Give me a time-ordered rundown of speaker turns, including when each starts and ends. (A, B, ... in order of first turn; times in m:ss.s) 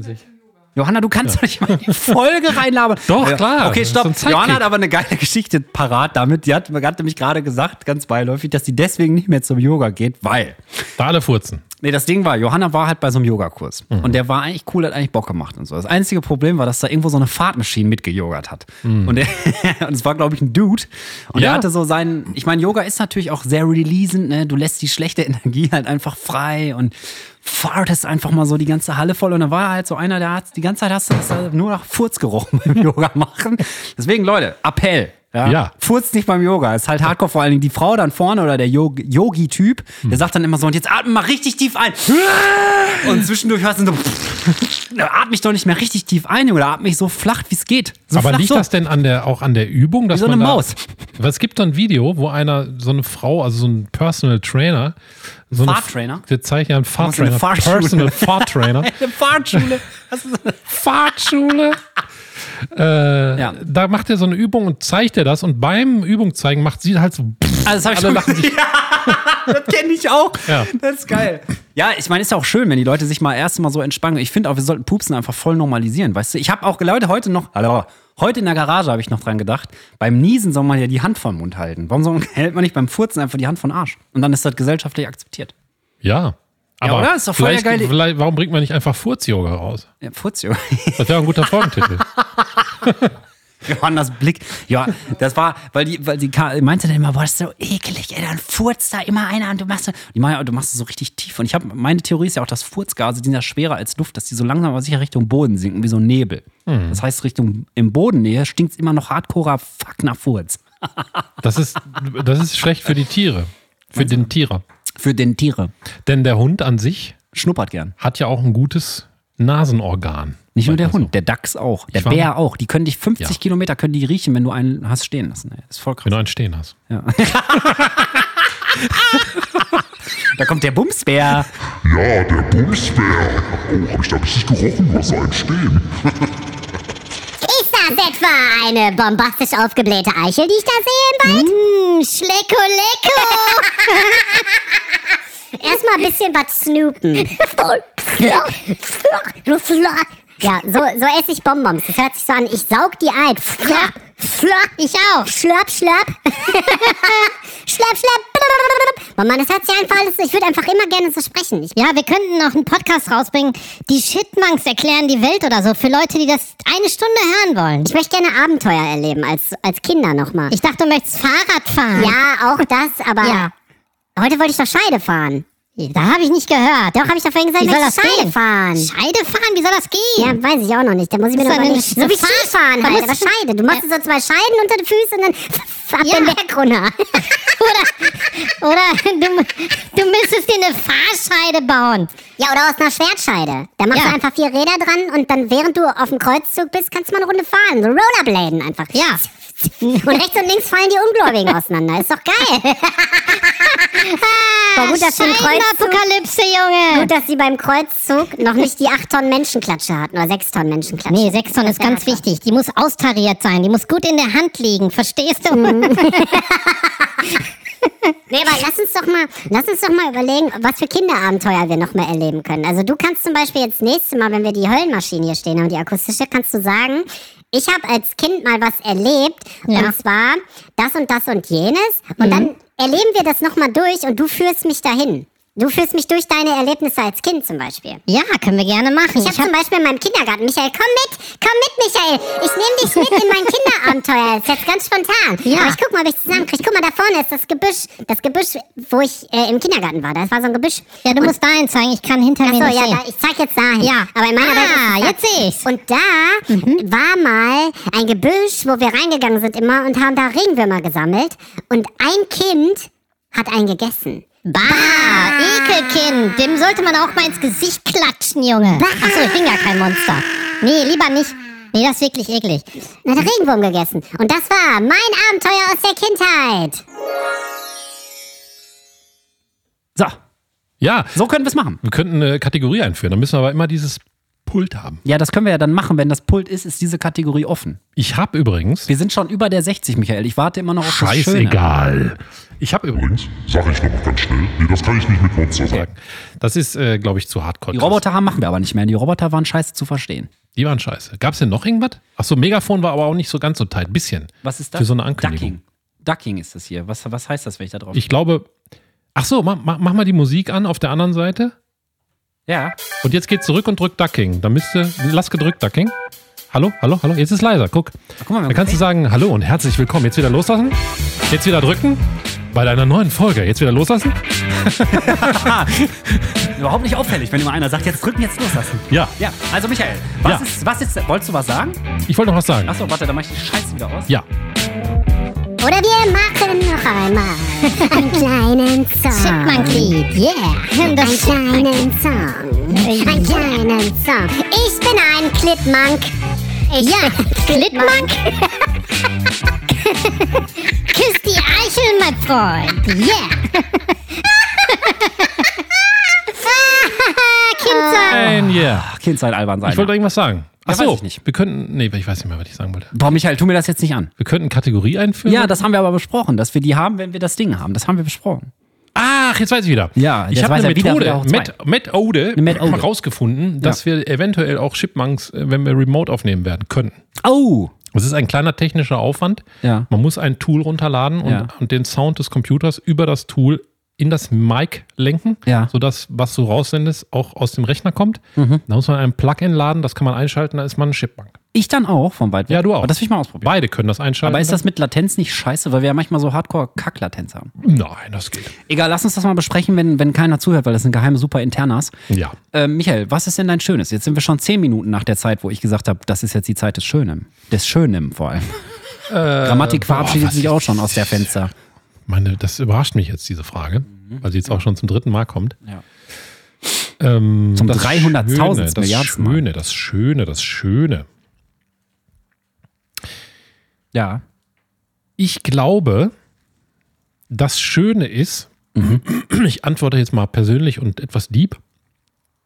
0:00.7-0:10.9 A
0:01.8-0:02.1 B
0:03.1-0:04.7 B
0:11.0-0:11.6 B
0:11.8-0:48.7 A
0:18.8-0:19.1 B
0:21.4-0:21.6 B
0:35.4-0:35.7 B
0:42.6-0:42.9 B
0:48.1-0:50.6 B
0:50.1-0:50.8 A
0:51.2-0:55.0 B
0:55.5-0:59.0 B
0:55.5-0:56.2 A
0:57.0-1:00.6 A
1:00.7-1:01.8 B
1:02.7-1:08.5 B
1:07.6-1:25.5 A
1:26.0-1:29.9 B
1:26.8-1:27.9 A
1:30.0-1:32.4 A
1:31.0-1:32.1 B
1:33.6-1:50.6 A
1:46.7-1:47.0 B
1:51.4-1:54.6 B
1:53.9-1:54.3 A
1:55.0-1:55.7 A
1:56.0-1:57.2 B
1:57.3-1:57.9 A
1:58.0-2:01.1 B
2:00.5-2:06.1 A
2:01.9-2:02.3 B
2:06.0-2:06.8 B
2:06.9-2:09.8 A
2:07.7-2:08.0 B
2:10.3-2:11.5 A
2:11.8-2:15.9 C
2:17.4-2:21.5 D
2:21.2-2:24.2 E
2:23.6-2:23.9 D
2:25.5-2:34.7 D
2:33.6-2:33.9 E
2:34.8-2:35.3 E
2:35.2-2:41.8 D
2:41.8-2:47.9 E
2:47.8-2:50.5 D
2:50.5-2:52.2 E
2:51.9-2:53.5 D
2:53.2-2:53.5 E
2:54.2-2:55.4 D
2:55.8-2:57.0 E
2:57.0-2:58.9 D
2:57.6-3:00.4 E
3:00.2-3:07.5 D
3:01.3-3:03.8 E
3:06.0-3:06.4 E
3:07.5-3:12.1 E
3:12.4-3:24.2 D
3:18.9-3:19.2 E
3:19.8-3:20.2 E
3:24.0-3:27.1 E
3:24.7-3:26.0 D
3:26.9-3:32.2 D
3:31.1-3:36.4 E
3:35.5-3:37.3 D
3:38.3-3:58.0 D
3:49.7-3:49.9 E
3:52.2-3:52.5 E
3:58.1-3:59.5 E
3:59.2-4:11.3 D
4:05.4-4:05.8 E
4:11.0-4:13.0 E
4:12.4-4:25.8 D
4:13.8-4:15.6 E
4:16.5-4:16.8 E
4:24.4-4:32.7 E
4:28.8-4:29.5 D
4:33.0-4:36.8 D
4:40.8-4:41.2 B
4:41.1-4:41.8 A
4:41.8-4:45.0 B
4:45.0-4:47.8 A
4:48.0-4:48.9 B
4:48.9-4:51.6 A
4:50.8-4:53.1 B
4:52.9-4:55.9 C
4:55.7-4:58.0 B
4:57.7-5:00.3 A
5:00.5-5:05.5 B
5:04.4-5:08.0 A
5:07.9-5:08.5 B
5:09.1-5:11.5 B
5:12.5-5:12.8 A
5:13.0-5:15.9 B
5:16.5-5:26.5 B
5:18.2-5:18.8 A
5:24.8-5:25.8 A
5:26.5-5:31.8 A
5:28.9-5:29.1 B
5:32.1-5:32.7 B
5:32.6-5:34.1 A
5:35.6-5:40.0 D
5:37.7-5:38.2 E
5:39.1-5:41.8 E
5:40.6-5:46.1 D
5:42.7-5:43.6 E
5:46.7-5:48.6 D
5:46.8-5:48.1 E
5:49.8-5:50.4 D
5:50.9-5:53.4 E
5:54.7-5:55.2 E
5:56.9-5:58.3 E
5:57.6-5:58.2 D
5:58.1-5:58.9 B
5:58.3-5:59.9 A
5:59.6-6:02.9 B
6:00.6-6:01.2 A
6:02.9-6:04.1 A
6:04.2-6:05.6 B
6:05.2-6:08.5 A
6:08.9-6:17.0 B
6:09.9-6:11.5 A
6:12.3-6:12.9 A
6:17.2-6:17.7 A
6:17.9-6:31.4 B
6:19.6-6:19.9 A
6:21.2-6:21.5 A
6:25.4-6:25.7 A
6:28.4-6:28.6 A
6:31.5-6:33.5 A
6:32.5-6:34.6 B
6:34.2-6:37.5 A
6:37.6-6:38.5 B
6:38.7-6:41.9 A
6:42.1-6:42.4 B
6:42.5-6:48.6 A
6:49.1-6:51.4 B
6:49.4-6:51.5 A
6:52.1-6:55.6 B
6:53.9-6:54.6 A
6:57.0-7:01.0 B
6:57.6-6:59.4 A
7:03.9-7:04.2 A
7:05.2-7:06.1 B
7:07.3-7:11.6 B
7:08.7-7:09.0 A